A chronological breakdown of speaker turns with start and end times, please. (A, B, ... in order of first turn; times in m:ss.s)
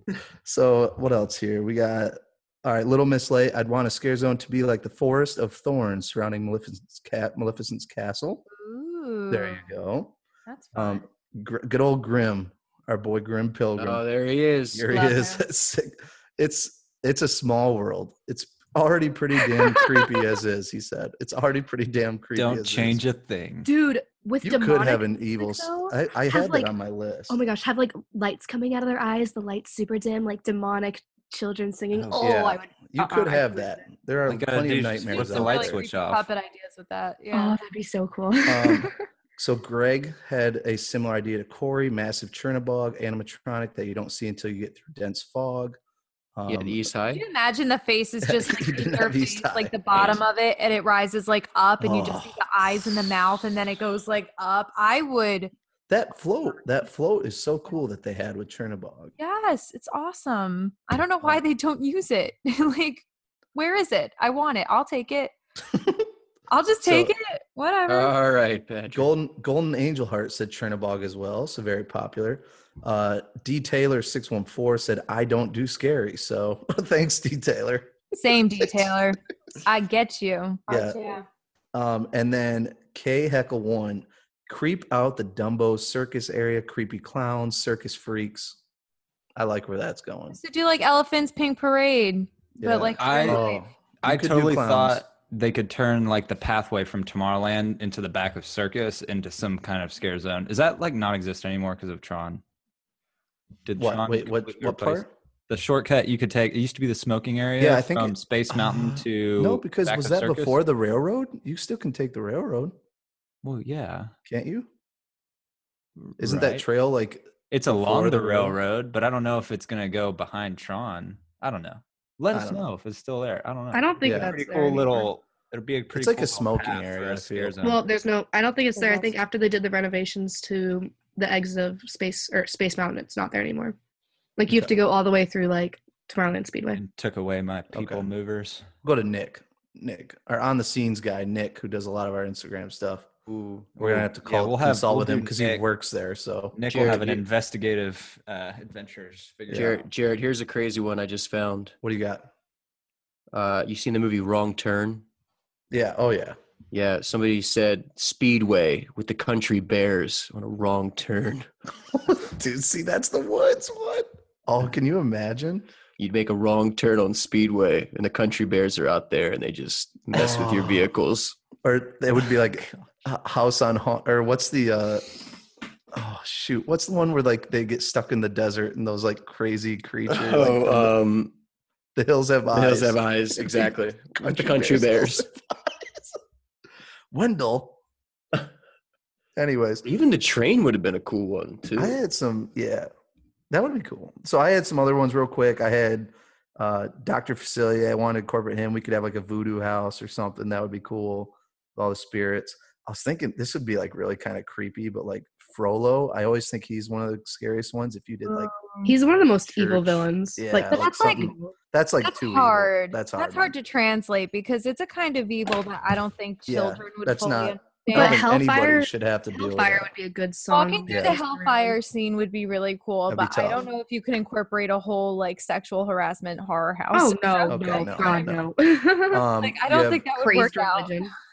0:00.4-0:08.4 A
0:08.5-0:09.7 B
0:09.3-0:10.2 A
0:10.5-0:11.0 B
0:10.7-0:14.0 A
0:13.8-0:14.9 C
0:14.7-0:23.0 A
0:14.9-0:15.4 B
0:19.6-0:20.2 D
0:22.3-0:23.7 E
0:23.6-0:26.7 D
0:24.4-0:27.4 A
0:27.3-0:33.8 D
0:31.9-0:32.2 E
0:32.1-0:32.5 B
0:32.2-0:35.8 A
0:34.3-0:36.2 E
0:35.1-0:37.6 B
0:37.3-0:38.9 D
0:38.4-0:45.8 A
0:46.4-0:46.8 A
0:46.5-0:47.2 C
0:47.1-0:55.5 B
0:48.2-0:50.2 A
0:51.8-0:52.4 A
0:55.9-0:59.1 A
0:59.2-1:05.3 B
1:05.7-1:06.1 A
1:06.5-1:08.1 B
1:06.8-1:07.1 A
1:07.9-1:09.1 C
1:08.9-1:18.9 A
1:18.2-1:21.2 B
1:20.7-1:21.0 A
1:21.7-1:28.6 A
1:29.4-1:30.4 A
1:30.3-1:33.6 B
1:32.6-1:35.0 A
1:33.0-1:33.5 E
1:34.0-1:42.4 E
1:43.6-1:50.6 E
1:43.8-1:45.1 A
1:47.6-1:52.8 A
1:53.4-1:54.1 E
1:54.2-1:54.7 A
1:56.0-1:56.6 E
1:56.2-1:58.6 A
1:57.5-2:07.8 E
2:02.3-2:02.6 A
2:03.7-2:05.1 D
2:04.0-2:04.3 A
2:05.9-2:07.6 A
2:07.6-2:13.8 D
2:08.8-2:09.1 B
2:14.4-2:16.8 D
2:16.7-2:18.6 E
2:17.7-2:18.1 A
2:18.8-2:27.2 A
2:23.8-2:25.6 E
2:26.5-2:29.9 E
2:26.7-2:27.1 C
2:29.5-2:31.7 C
2:31.8-2:32.3 A
2:33.3-2:35.0 C
2:35.7-2:36.4 A
2:36.7-2:41.5 C
2:41.9-2:45.7 A
2:46.0-2:51.4 C
2:50.1-2:50.9 A
2:51.6-2:55.2 A
2:55.9-3:01.0 A
3:00.1-3:01.3 C
3:01.9-3:06.2 A
3:02.5-3:05.2 C
3:07.1-3:07.8 A
3:09.4-3:09.9 A
3:09.8-3:12.0 C
3:11.8-3:12.9 A
3:13.5-3:28.5 A
3:28.2-3:28.9 B
3:28.8-3:31.5 D
3:29.4-3:33.5 A
3:30.7-3:31.3 B
3:32.0-3:38.3 B
3:36.5-3:39.9 A
3:37.9-3:41.8 D
3:40.5-3:48.3 B
3:40.9-3:41.2 A
3:43.1-3:43.7 A
3:46.9-3:49.3 D
3:47.5-3:48.5 A
3:49.1-3:50.1 A
3:49.4-3:51.1 B
3:50.1-3:51.1 D